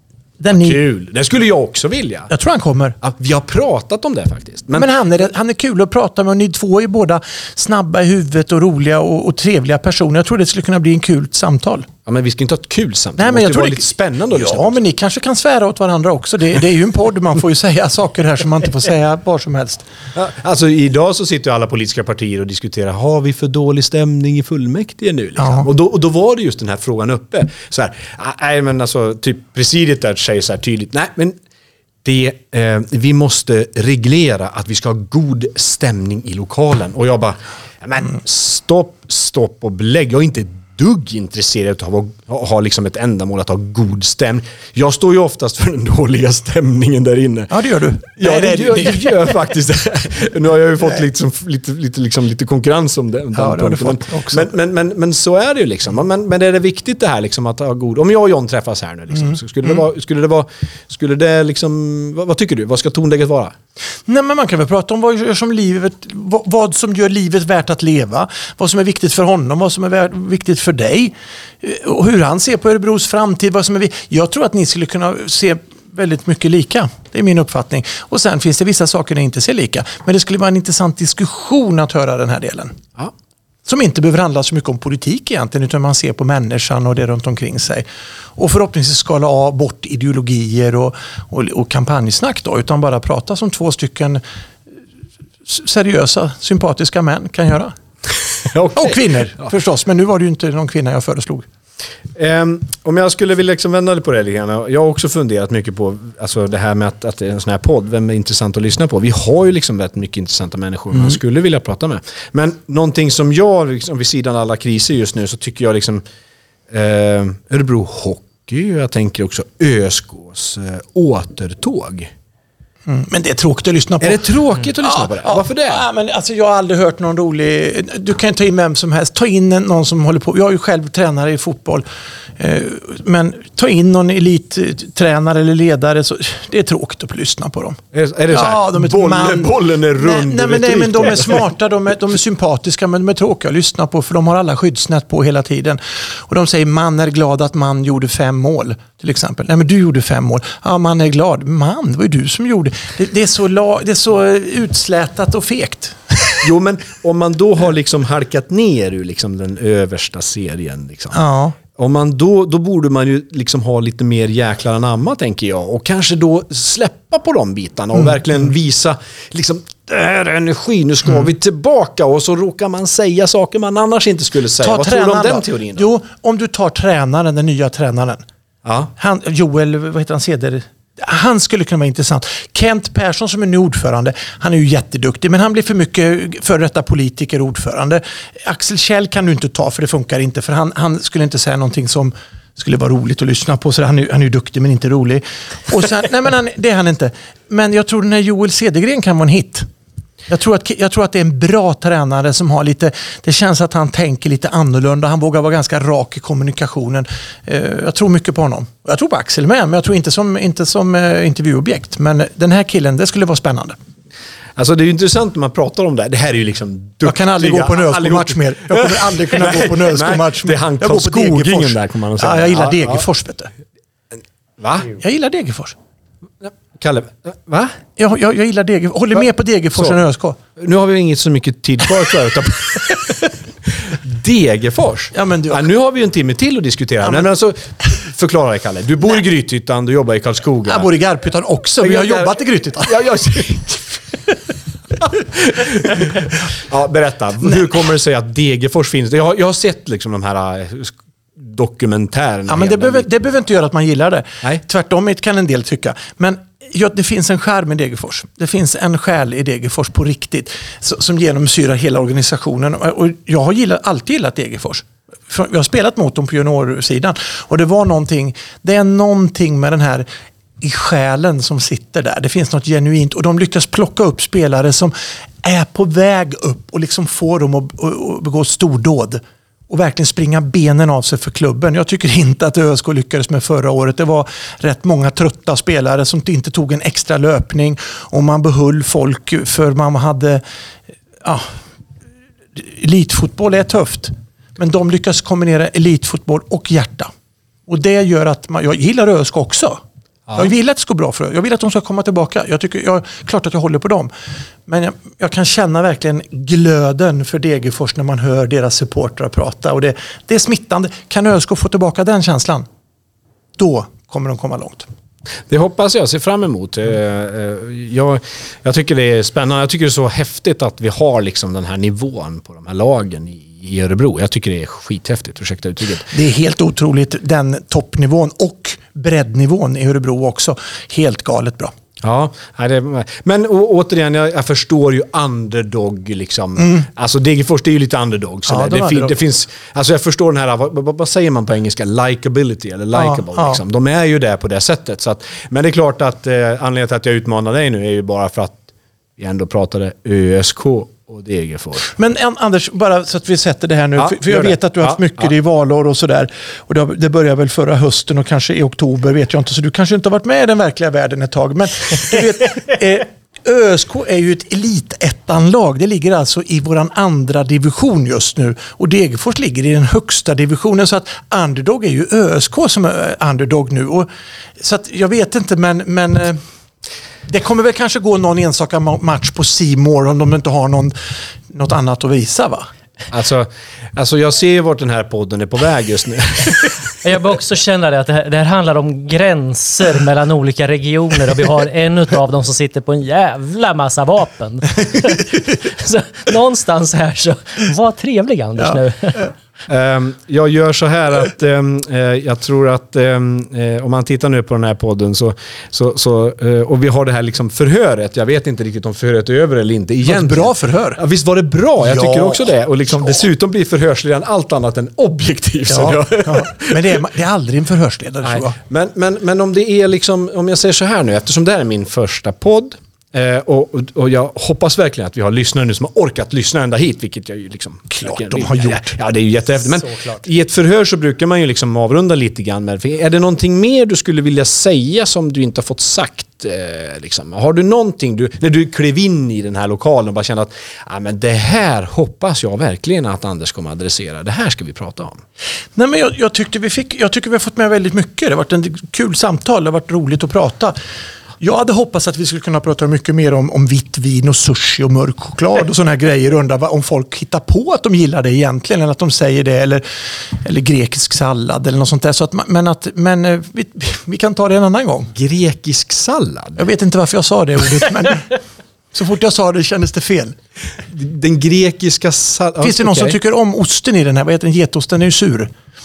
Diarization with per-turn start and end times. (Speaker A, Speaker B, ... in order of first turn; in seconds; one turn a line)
Speaker A: 0.4-0.8
Speaker B: 0.5-2.3
Speaker A: 2.3-3.0
Speaker B: 3.0-4.9
Speaker A: 4.7-11.9
Speaker B: 12.1-14.8
Speaker A: 13.2-19.8
Speaker B: 20.1-31.4
Speaker A: 25.4-25.7
Speaker B: 32.0-47.5
Speaker A: 47.5-49.2
Speaker B: 48.1-63.5
Speaker A: 53.3-54.5
Speaker A: 64.1-82.8
Speaker A: 83.7-87.8
Speaker A: 88.3-94.2
Speaker A: 95.5-97.7
Speaker B: 98.4-99.1
Speaker A: 98.7-101.5
Speaker B: 102.1-116.0
Speaker B: 116.7-122.1
Speaker A: 122.9-124.2
Speaker B: 124.0-125.8
Speaker A: 124.8-131.8
Speaker A: 132.4-137.8
Speaker B: 137.9-141.5
Speaker A: 138.3-156.4
Speaker B: 156.4-161.2
Speaker A: 161.1-161.6
Speaker B: 161.7-175.9
Speaker A: 174.6-178.2
Speaker B: 178.6-178.9
Speaker A: 179.0-199.7
Speaker A: 200.3-213.8
Speaker B: 214.6-223.0
Speaker A: 217.0-223.5
Speaker B: 224.6-224.9
Speaker A: 224.9-225.8
Speaker B: 226.4-227.8
Speaker A: 228.0-230.4
Speaker B: 230.6-240.9
Speaker A: 235.1-235.7
Speaker A: 240.7-243.0
Speaker B: 241.8-244.0
Speaker B: 245.0-253.1
Speaker A: 252.5-270.1
Speaker A: 270.6-290.4
Speaker A: 291.2-291.6
Speaker A: 292.6-297.1
Speaker A: 297.7-299.8
Speaker A: 300.3-304.1
Speaker A: 304.7-312.6
Speaker A: 313.6-314.9
Speaker B: 315.5-326.1
Speaker A: 326.1-331.7
Speaker B: 332.0-348.6
Speaker A: 336.6-336.8
Speaker A: 338.5-339.2
Speaker A: 342.9-343.6
Speaker B: 349.2-351.9
Speaker A: 351.9-376.4
Speaker B: 354.0-355.2
Speaker A: 377.3-382.7
Speaker B: 383.1-386.8
Speaker C: 387.0-399.3
Speaker B: 399.7-416.8
Speaker A: 410.0-411.0
Speaker A: 411.8-412.5
Speaker A: 415.7-418.6
Speaker B: 418.2-445.2
Speaker A: 427.9-429.0
Speaker A: 445.8-450.8
Speaker A: 451.4-465.1
Speaker B: 465.1-466.6
Speaker A: 466.6-468.4
Speaker A: 468.9-470.4
Speaker B: 470.8-473.2
Speaker A: 472.6-475.5